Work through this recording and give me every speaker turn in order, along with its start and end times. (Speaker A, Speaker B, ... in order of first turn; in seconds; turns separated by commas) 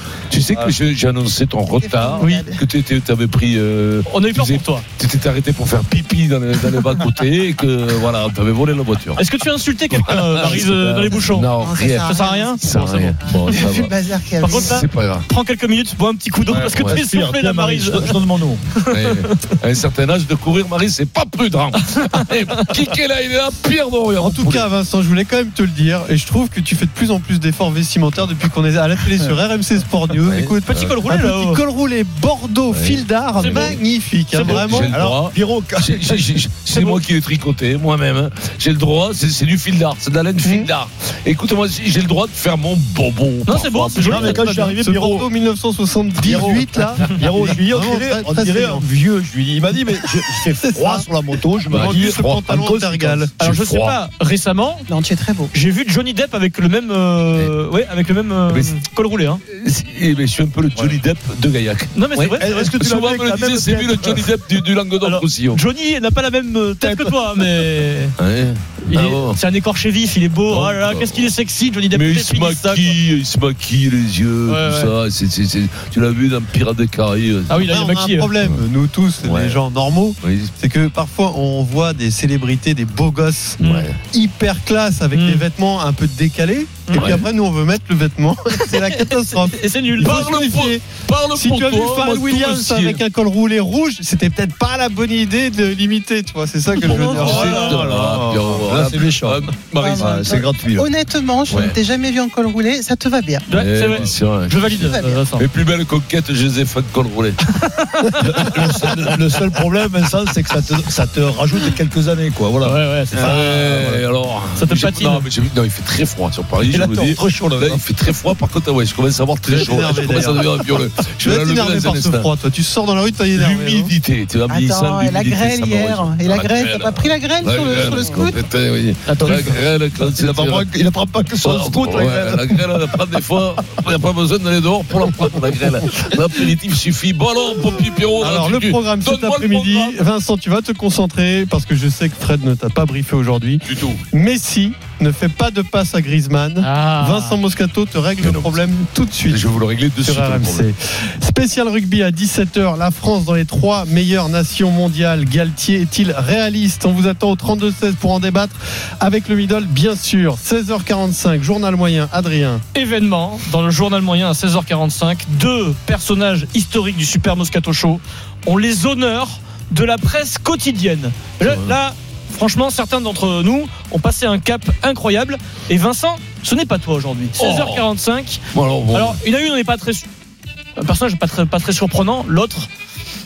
Speaker A: 0.3-9.3, Speaker B: 1.8-2.6, Speaker C: 2.2-2.5, Speaker C: 4.0-4.8, Speaker C: 9.2-11.5, Speaker A: 9.9-15.2, Speaker B: 11.6-12.7, Speaker C: 12.0-13.1, Speaker B: 13.5-14.8, Speaker C: 14.4-18.2, Speaker D: 16.5-18.6, Speaker A: 16.7-17.0, Speaker C: 18.8-19.5, Speaker A: 18.9-24.6, Speaker C: 22.2-22.6, Speaker E: 24.2-34.9, Speaker A: 30.2-31.0, Speaker C: 30.6-31.6, Speaker A: 32.7-33.8, Speaker C: 33.4-34.9, Speaker A: 34.4-44.4, Speaker D: 34.9-36.4, Speaker C: 36.7-37.0, Speaker C: 43.5-44.7, Speaker D: 44.0-45.3, Speaker E: 44.5-48.8, Speaker D: 46.2-53.3, Speaker E: 50.6-51.0, Speaker E: 51.7-53.3, Speaker A: 51.7-52.4, Speaker A: 53.4-54.0, Speaker C: 53.4-54.8, Speaker B: 54.9-55.5, Speaker C: 55.5-59.4, Speaker A: 58.5-58.8, Speaker A: 59.5-65.6, Speaker C: 61.9-62.7, Speaker D: 62.4-64.3, Speaker C: 65.0-68.1, Speaker D: 66.8-67.1, Speaker A: 68.2-69.4, Speaker C: 68.8-73.0, Speaker A: 70.5-71.3, Speaker A: 71.9-77.7, Speaker C: 74.5-74.9, Speaker C: 77.5-78.3, Speaker E: 77.7-83.6, Speaker A: 79.2-79.6, Speaker A: 80.2-80.5, Speaker A: 83.6-84.0, Speaker C: 83.6-83.9, Speaker E: 84.1-90.8, Speaker C: 85.1-85.4, Speaker C: 86.9-87.2, Speaker A: 86.9-87.3, Speaker C: 89.4-90.3, Speaker A: 90.0-93.0, Speaker E: 91.3-97.6, Speaker B: 96.9-97.8, Speaker A: 97.0-100.4, Speaker D: 97.1-100.9, Speaker B: 99.8-103.4, Speaker A: 101.5-101.8, Speaker C: 103.5-105.4, Speaker A: 103.5-107.4, Speaker B: 104.6-105.2, Speaker C: 107.6-109.1, Speaker D: 108.2-114.0, Speaker A: 108.4-109.0, Speaker C: 112.6-113.5, Speaker A: 113.1-122.3, Speaker C: 114.5-115.3, Speaker D: 116.6-117.8, Speaker E: 119.5-120.6, Speaker E: 121.2-123.9, Speaker A: 123.3-130.7, Speaker B: 124.5-128.4, Speaker C: 129.1-129.5, Speaker D: 129.2-133.0, Speaker A: 131.4-140.0, Speaker E: 138.2-149.4, Speaker A: 143.7-144.0, Speaker C: 146.6-147.4, Speaker A: 148.2-148.6, Speaker A: 149.3-150.7, Speaker E: 150.0-162.6, Speaker C: 162.7-180.1, Speaker A: 171.4-171.8, Speaker A: 177.4-177.8, Speaker A: 178.5-179.2, Speaker C: 180.8-182.7